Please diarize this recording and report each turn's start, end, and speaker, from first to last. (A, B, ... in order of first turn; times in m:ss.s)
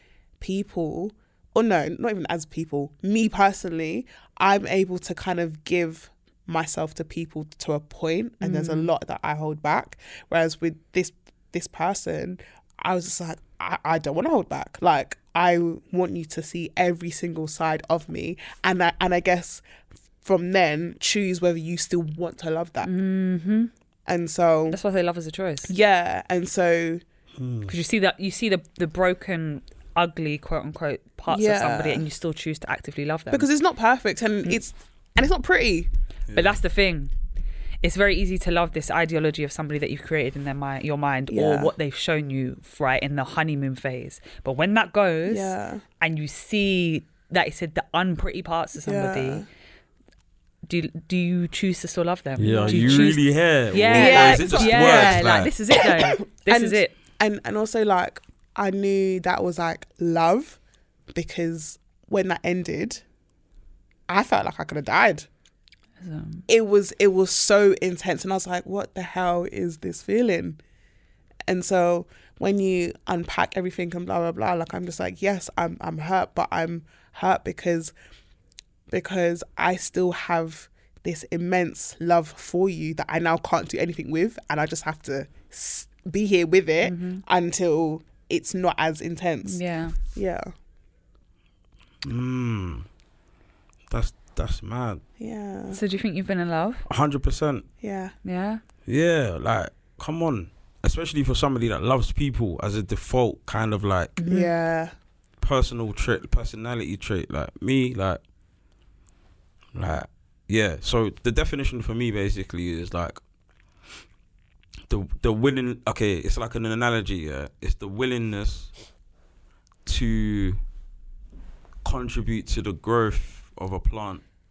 0:00.4-0:19.6 A
0:08.4-0:08.9 B
0:20.2-0:22.9 A
0:22.8-0:23.7 B
0:24.1-0:24.8 A
0:24.7-0:25.7 B
0:25.7-0:27.0 A
0:27.4-0:27.7 C
0:27.7-0:33.5 B
0:31.3-0:32.1 A
0:33.3-0:35.9 A
0:36.3-0:36.6 C
0:36.3-0:37.1 B
0:37.8-0:49.4 B
0:41.3-0:41.7 A
0:45.3-0:45.8 A
0:48.8-0:49.5 A
0:50.7-0:56.9 B
0:52.4-0:55.5 C
0:52.4-0:53.1 A
0:53.9-1:00.6 A
1:01.1-1:03.0 A
1:04.1-1:05.3 A
1:06.0-1:06.5 B
1:06.5-1:10.6 A
1:11.5-1:17.9 A
1:18.9-1:29.6 A
1:26.8-1:27.2 B
1:29.4-1:30.0 B
1:30.1-1:30.5 A
1:32.0-1:32.9 C
1:33.9-1:35.0 C
1:35.2-1:35.8 A
1:35.7-1:36.8 B
1:36.9-1:37.6 C
1:37.8-1:38.1 A
1:38.2-1:38.6 B
1:38.9-1:44.2 C
1:44.2-1:44.5 B
1:44.3-1:44.9 A
1:45.4-1:48.2 C
1:49.7-1:53.2 C
1:54.9-1:58.7 C
1:59.9-2:00.6 C
2:01.8-2:04.2 C